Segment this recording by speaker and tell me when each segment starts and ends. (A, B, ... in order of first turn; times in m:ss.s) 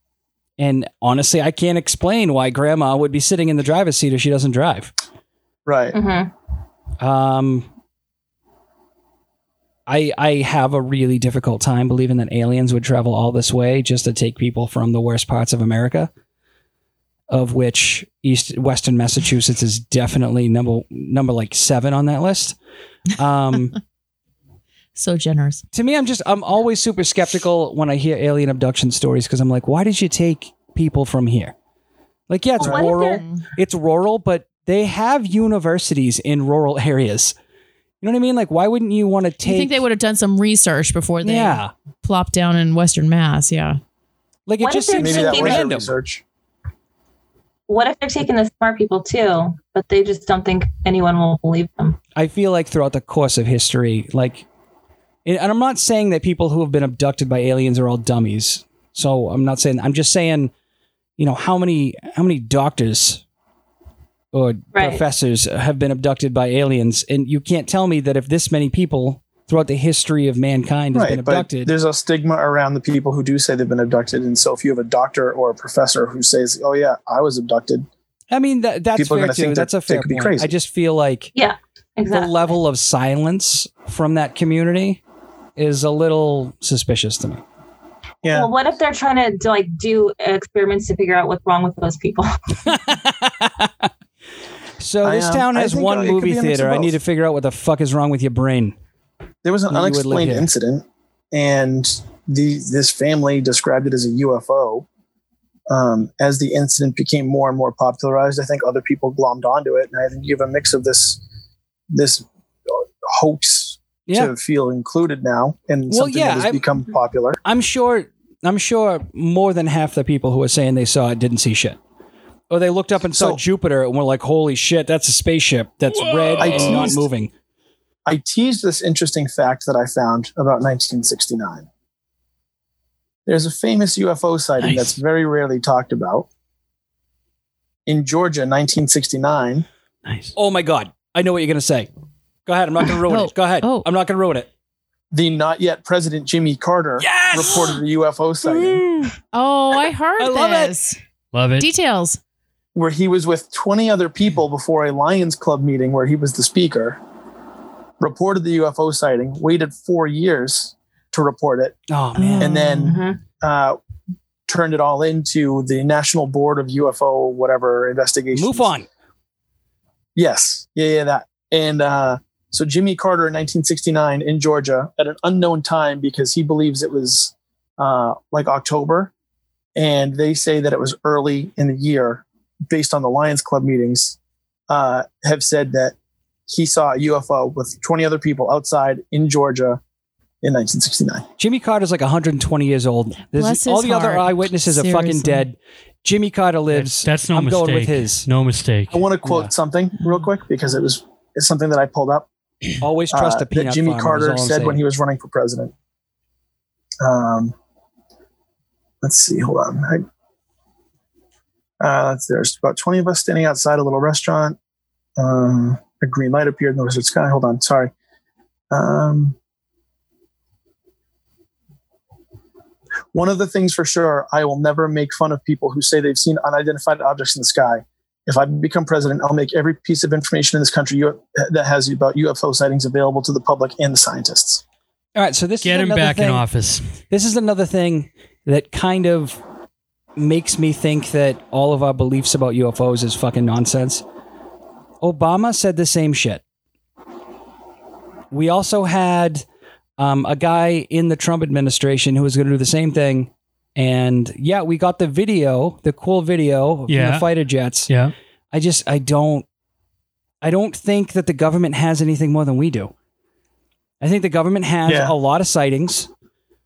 0:00.6-0:04.9 A
0:05.6-0:06.0 B
0:05.9-0:06.3 C
0:07.0-0:07.7 A
0:09.9-0:16.1 A
0:17.3-0:22.6 A
0:23.2-0:23.8 A
0:24.9-0:25.6 D
0:25.7-0:31.5 A
0:32.3-0:37.3 A
0:32.6-0:32.8 B
0:32.6-0:33.2 C
0:33.0-0:33.4 D
0:38.0-0:39.8 A
0:39.4-0:43.8 D
0:41.2-0:41.7 A
0:44.5-0:45.9 A
0:44.6-0:45.7 C
0:44.9-0:46.2 B
0:47.7-0:52.0 C
0:52.1-0:54.4 A
0:55.2-1:00.5 A
1:01.2-1:03.2 A
1:04.3-1:11.7 A
1:04.7-1:05.0 C
1:10.9-1:17.9 B
1:18.3-1:21.3 A
1:19.0-1:20.5 B
1:21.3-1:22.6 C
1:22.1-1:25.0 A
1:25.6-1:27.4 A
1:28.2-1:28.5 B
1:28.2-1:32.6 C
1:32.6-1:33.9 A
1:34.8-1:38.8 A
1:35.0-1:37.0 B
1:39.4-1:44.8 B
1:39.7-1:40.5 A
1:45.7-1:51.2 B
1:51.9-1:57.4 B
1:54.1-1:54.3 A
1:55.9-1:56.6 A
1:57.4-2:01.8 A
2:02.5-2:07.3 A
2:03.1-2:03.4 B
2:05.9-2:06.8 E
2:06.4-2:07.0 B
2:08.0-2:11.6 B
2:13.2-2:16.3 B
2:14.6-2:15.0 E
2:17.8-2:19.6 B
2:20.0-2:20.3 E
2:20.4-2:21.9 A
2:22.4-2:24.5 A
2:23.0-2:23.9 D
2:25.1-2:28.8 B
2:27.0-2:27.8 A
2:28.4-2:29.1 A
2:29.3-2:31.0 D
2:30.2-2:30.7 A
2:31.3-2:31.7 E
2:31.6-2:32.2 D
2:32.7-2:37.0 B
2:38.0-2:41.8 B
2:41.9-2:42.6 A
2:42.2-2:43.0 D
2:42.4-2:43.8 B
2:42.8-2:43.2 C
2:44.5-2:48.7 B
2:48.3-2:48.9 A
2:50.2-2:59.1 B
2:59.7-3:04.2 B
3:04.7-3:05.9 B
3:06.5-3:09.8 B
3:10.4-3:11.2 B
3:11.4-3:18.3 A
3:13.3-3:15.5 D
3:16.7-3:19.1 E
3:18.9-3:22.3 B
3:19.2-3:19.5 A
3:22.8-3:24.8 A
3:23.1-3:25.7 B
3:27.0-3:27.5 B
3:29.0-3:30.0 B
3:31.8-3:34.6 B
3:35.2-3:37.9 B
3:38.7-3:39.4 B
3:43.1-3:54.6 B
3:55.1-3:56.4 A
3:55.6-3:56.9 E
3:57.1-3:59.4 A
4:00.2-4:04.0 A
4:05.0-4:06.4 A
4:08.3-4:09.4 A
4:10.0-4:17.9 A
4:16.9-4:17.3 E
4:17.9-4:18.1 E
4:18.5-4:19.4 A
4:20.4-4:22.9 A
4:24.0-4:26.1 A
4:24.9-4:25.1 B